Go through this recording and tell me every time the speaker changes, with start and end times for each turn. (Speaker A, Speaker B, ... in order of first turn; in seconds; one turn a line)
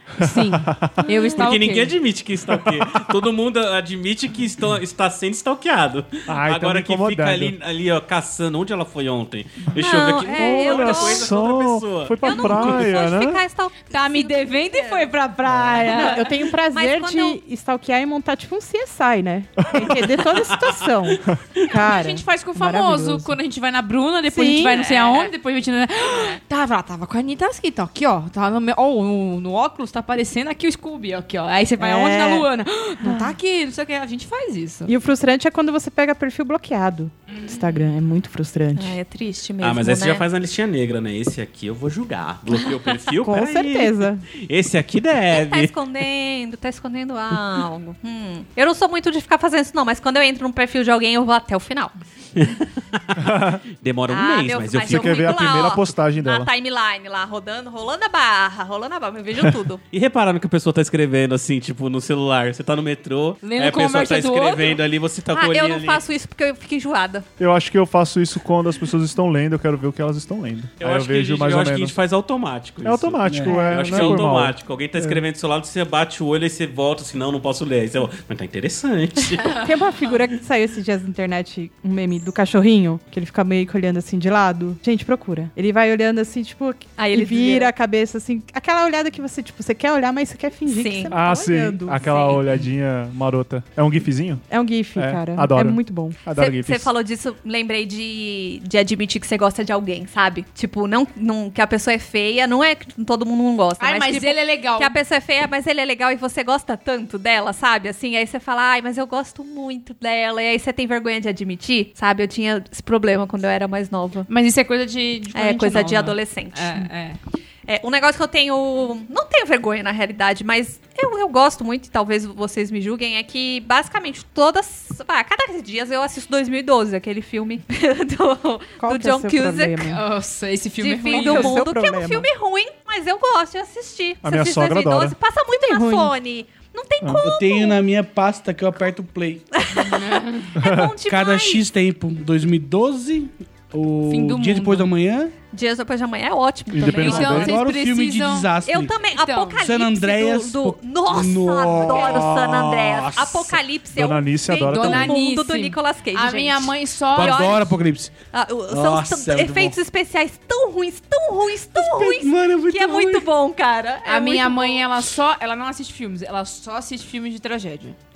Speaker A: 0.2-1.1
Speaker B: 0.2-1.9
Speaker C: 1.4-12.9
Speaker A: 2.5-3.1
Speaker A: 6.3-7.5
Speaker D: 9.7-11.3
Speaker A: 10.3-13.4
Speaker D: 12.2-15.1
Speaker B: 13.9-16.3
Speaker A: 15.5-15.8
Speaker E: 16.0-23.3
Speaker D: 16.0-17.4
Speaker A: 19.7-20.1
Speaker C: 20.3-20.8
Speaker B: 21.7-34.9
Speaker E: 24.3-24.8
Speaker D: 24.7-25.3
Speaker E: 31.8-32.5
Speaker E: 33.0-33.4
Speaker E: 34.9-39.0
Speaker D: 38.7-40.2
Speaker C: 39.6-45.7
Speaker E: 43.2-44.2
Speaker D: 45.3-51.9
Speaker C: 52.4-55.4
Speaker A: 53.2-53.6
Speaker D: 54.1-59.8
Speaker A: 54.8-56.5
Speaker C: 59.9-66.0
Speaker B: 63.4-64.8
Speaker D: 65.3-67.2
Speaker A: 67.4-72.0
Speaker C: 70.8-79.6
Speaker A: 72.8-75.2
Speaker E: 73.5-74.2
Speaker E: 79.5-92.1
Speaker D: 87.0-87.7
Speaker D: 90.7-91.1
Speaker A: 91.1-96.9
Speaker D: 92.0-92.5
Speaker E: 94.5-96.2
Speaker D: 96.3-114.3
Speaker B: 103.8-104.9
Speaker B: 114.3-117.2
Speaker D: 115.3-116.8
Speaker D: 117.7-129.9
Speaker E: 128.8-130.0
Speaker B: 129.9-131.6
Speaker D: 130.8-137.8
Speaker E: 131.1-132.3
Speaker A: 134.2-135.2
Speaker E: 135.5-136.1
Speaker A: 137.0-137.3
Speaker F: 137.2-139.5
Speaker D: 139.5-140.0
Speaker B: 139.7-140.5
Speaker D: 140.5-141.6
Speaker A: 140.6-140.9
Speaker F: 141.0-145.3
Speaker B: 144.1-144.9
Speaker D: 145.5-147.5
Speaker A: 146.7-147.6
Speaker B: 146.9-148.5
Speaker F: 147.1-149.0
Speaker D: 148.6-157.8
Speaker B: 149.1-149.6
Speaker F: 149.6-152.5
Speaker A: 152.0-155.2
Speaker B: 154.6-157.5
Speaker F: 157.1-158.1
Speaker D: 158.3-164.8
Speaker F: 158.7-159.8
Speaker F: 161.7-163.3
Speaker B: 164.0-167.9